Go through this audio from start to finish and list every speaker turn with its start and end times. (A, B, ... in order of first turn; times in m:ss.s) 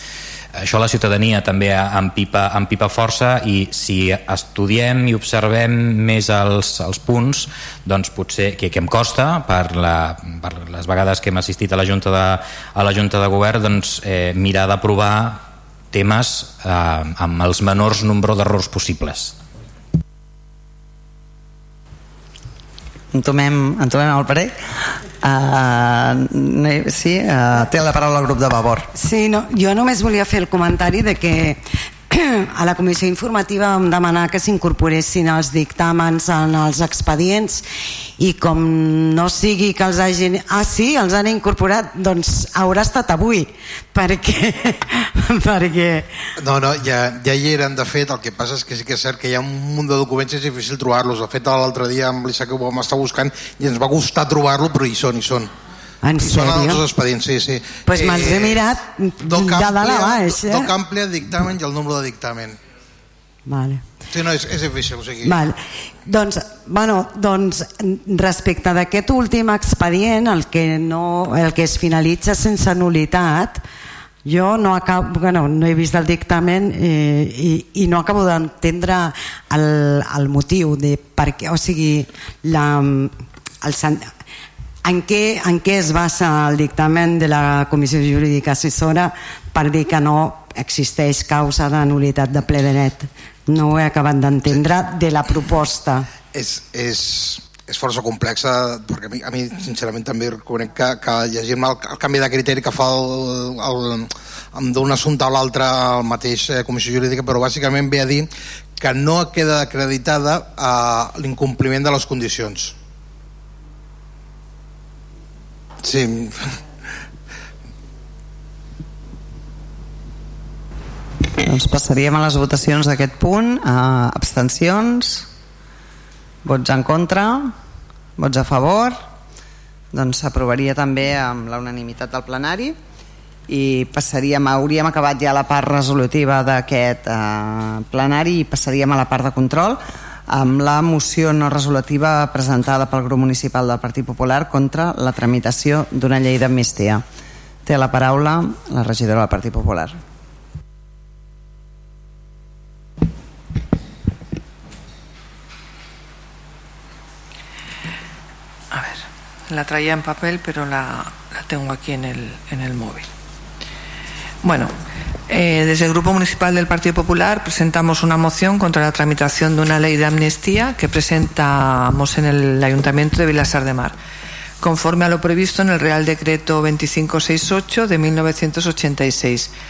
0:00.6-0:19.4 A
0:23.1-0:24.6 B
0:25.2-0:28.9 B
0:29.0-0:37.6 C
0:38.2-0:46.1 C
0:46.4-0:55.5 D
0:56.0-0:56.8 C
0:56.2-1:02.6 D
0:57.9-1:00.7 C
1:03.5-1:03.8 C
1:04.1-1:05.4 D
1:05.2-1:13.6 C
1:14.2-1:24.1 C
1:24.8-1:36.1 C
1:36.3-1:48.3 D
1:48.8-1:52.8 D
1:55.8-1:56.5 D
2:01.4-2:05.3 B
2:06.4-2:07.5 B
2:08.2-2:09.0 B
2:09.9-2:12.8 B
2:13.5-2:27.0 B
2:27.6-2:30.0 B
2:38.7-2:43.1 E
2:44.4-2:44.7 E
2:45.3-2:54.0 E
2:54.6-2:59.5 E